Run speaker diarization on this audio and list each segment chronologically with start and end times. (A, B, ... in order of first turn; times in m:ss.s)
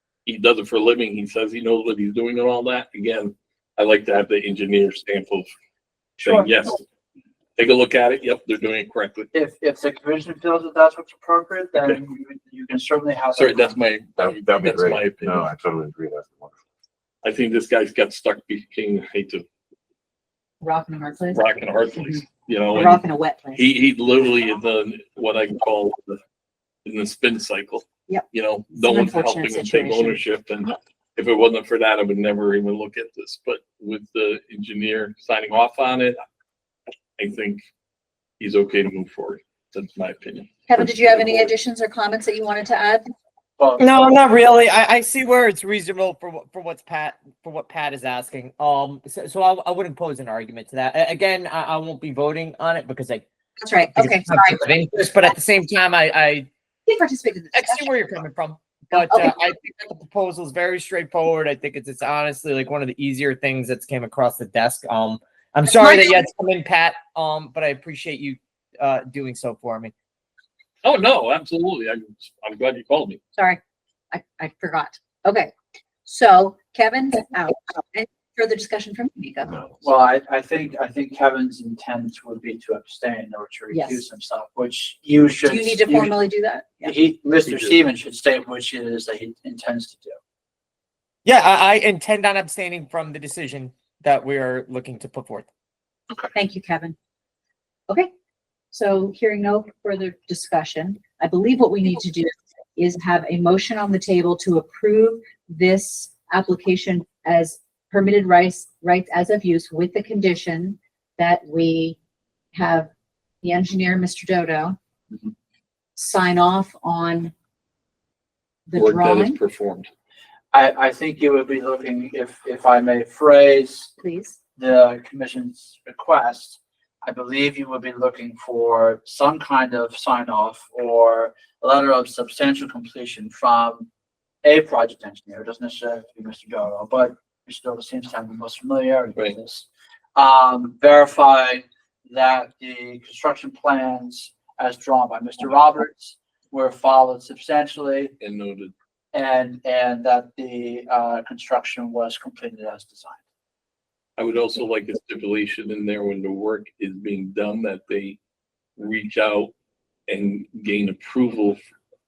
0:00.2-0:05.5 A
0:06.2-0:06.6 B
0:06.2-0:06.8 A
0:07.6-0:09.3 A
0:09.3-0:13.8 B
0:13.3-0:15.5 A
0:14.2-0:16.6 C
0:17.2-0:19.4 A
0:20.6-0:22.2 D
0:21.3-0:23.0 A
0:22.7-0:23.7 D
0:23.5-0:26.2 A
0:26.8-0:36.2 A
0:28.1-0:30.2 D
0:37.2-0:37.6 A
0:38.4-0:40.5 A
0:40.7-0:43.1 D
0:43.6-0:43.9 B
0:43.8-0:53.2 E
0:53.6-0:54.7 D
0:53.9-0:56.5 E
0:56.9-0:58.2 D
0:57.5-1:09.9 E
0:58.9-0:59.3 D
1:05.6-1:06.2 D
1:10.8-1:13.2 A
1:13.3-1:15.5 D
1:16.0-1:19.5 D
1:19.4-1:19.8 C
1:19.8-1:26.2 B
1:23.7-1:24.0 D
1:25.4-1:26.9 D
1:26.8-1:30.2 B
1:27.4-1:27.8 A
1:31.2-1:35.5 E
1:36.3-1:37.0 D
1:38.7-1:52.0 D
1:52.5-1:52.9 D
1:53.4-1:54.8 D
1:55.9-1:57.3 D
1:58.7-1:59.4 D
1:58.7-1:59.9 A
2:00.5-2:03.9 B
2:04.0-2:04.4 D
2:04.6-2:13.9 B
2:14.4-2:28.1 B
2:28.2-2:28.7 A
2:29.1-2:33.2 B
2:34.2-2:38.2 A
2:38.8-2:39.5 A
2:40.1-2:41.6 A